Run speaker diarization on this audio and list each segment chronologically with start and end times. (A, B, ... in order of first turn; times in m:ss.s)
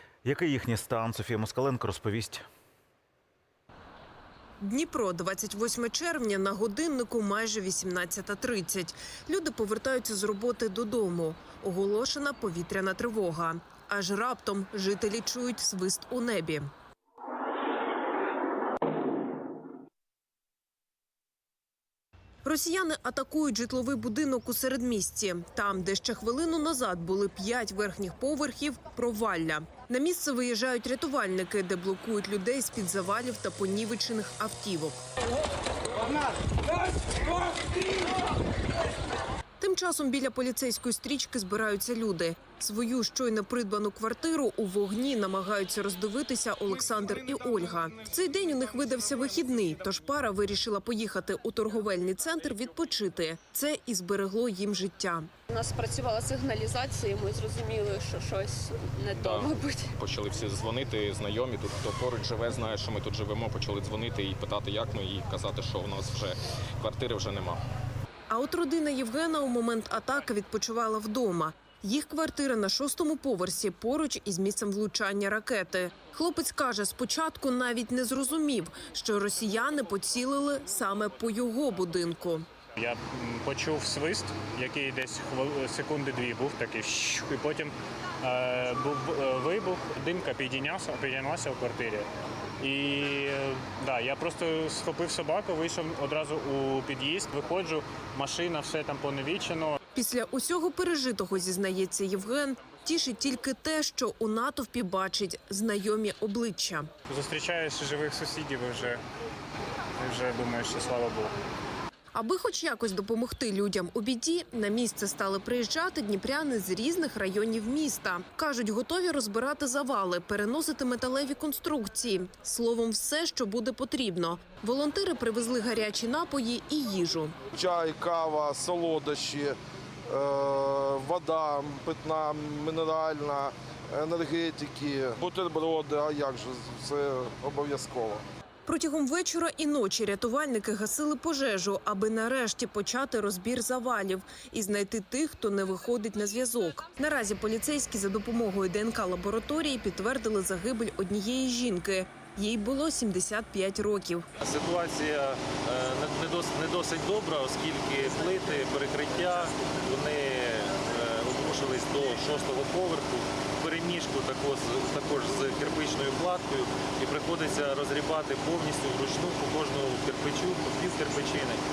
0:00.2-0:02.4 A
0:04.6-0:16.7 B
0:22.4-0:35.0 B
0:39.6-0:55.3 B
0:55.5-0:59.9 C
0:59.2-1:07.6 D
1:08.3-1:22.4 B
1:22.8-1:32.1 E
1:32.6-1:39.8 E
1:39.9-1:46.9 B
1:47.1-1:49.0 E
1:50.0-1:51.3 E
1:52.1-2:07.4 B
2:07.5-2:09.6 F
2:10.1-2:18.2 F
2:18.6-2:34.2 B
2:34.4-2:51.6 G